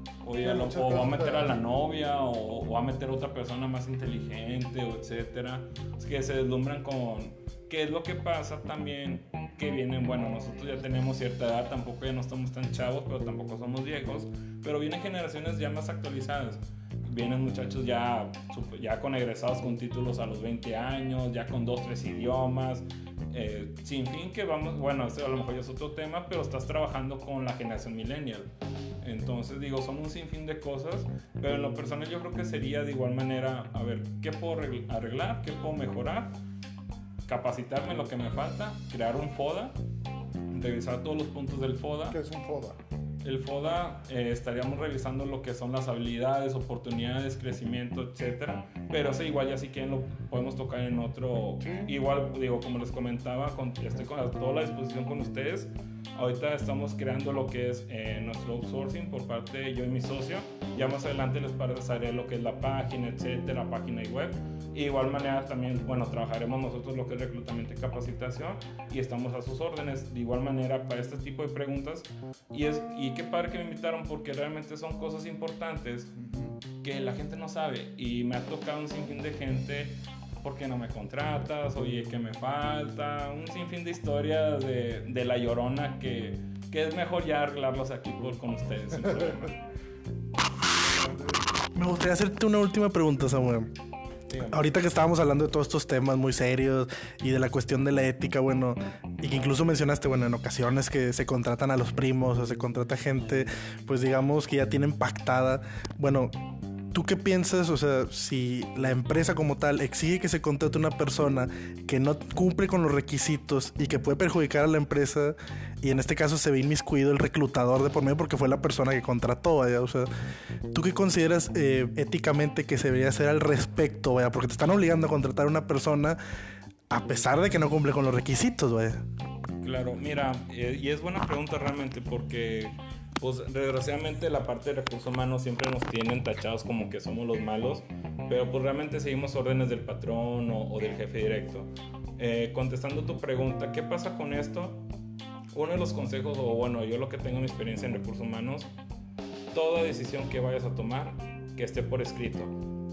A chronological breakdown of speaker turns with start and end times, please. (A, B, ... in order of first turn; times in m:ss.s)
0:00.2-0:28.5 A
0:00.4-0:01.6 B
0:29.0-0:36.3 A
0:37.3-0:39.8 A
0:40.5-0:42.2 A
0:42.1-0:42.8 B
0:43.2-1:16.1 A
0:51.6-0:51.9 B
1:16.2-1:16.6 B
1:16.8-1:29.6 A
1:30.8-1:31.5 B
1:31.8-1:33.7 C
1:34.3-1:34.6 A
1:34.4-1:46.4 C
1:46.9-2:00.1 C
2:00.7-2:06.2 C
2:06.9-2:09.0 C
2:09.6-2:24.8 A
2:25.5-2:28.7 A
2:29.5-2:32.6 A